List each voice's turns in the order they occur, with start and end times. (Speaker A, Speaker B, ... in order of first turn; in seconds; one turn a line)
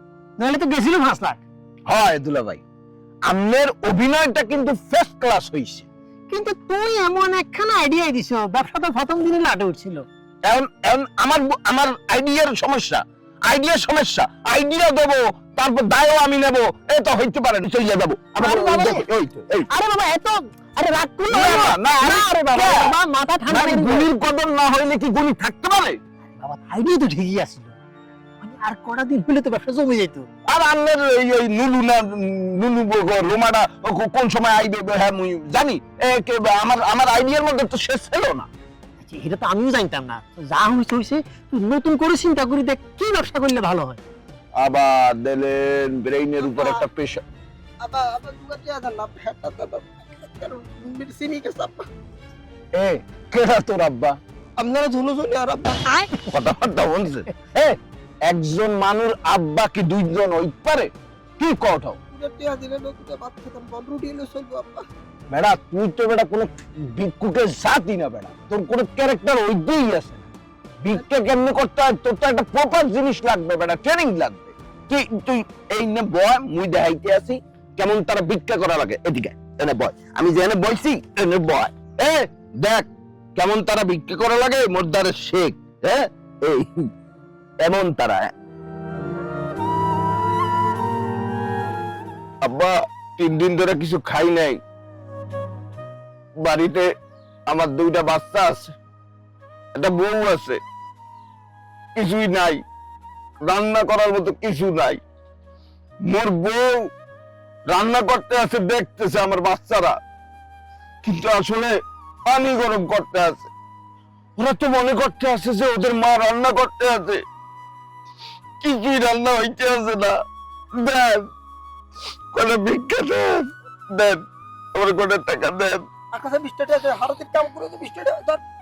Speaker A: 0.4-1.4
Speaker B: 1.9-2.6
Speaker B: 3.3-5.9
Speaker A: 6.3-10.1
Speaker B: 10.4-19.7
Speaker A: 18.4-19.0
Speaker A: 19.7-24.0
Speaker B: 21.3-26.0
Speaker A: 26.4-27.7
Speaker A: 28.4-30.3
Speaker B: 30.5-38.5
Speaker A: 39.0-44.0
Speaker B: 44.6-47.2
Speaker C: 46.4-46.8
Speaker C: 47.8-51.9
Speaker B: 52.7-54.2
Speaker C: 54.6-56.0
Speaker B: 56.2-57.8
Speaker B: 58.3-62.0
Speaker C: 62.1-64.8
Speaker B: 65.3-70.3
Speaker B: 70.8-86.8
Speaker B: 87.6-88.3
Speaker B: 92.4-94.6
Speaker B: 96.4-96.8
Speaker B: 97.5-98.7
Speaker B: 99.8-100.6
Speaker B: 102.0-102.6
Speaker B: 103.5-105.0
Speaker B: 106.1-106.7
Speaker B: 107.7-109.9
Speaker B: 111.0-111.7
Speaker B: 112.3-113.5
Speaker B: 114.4-117.2
Speaker B: 118.6-120.1
Speaker B: 120.8-121.2
Speaker B: 122.3-123.4
Speaker B: 124.8-125.8
Speaker C: 126.1-128.4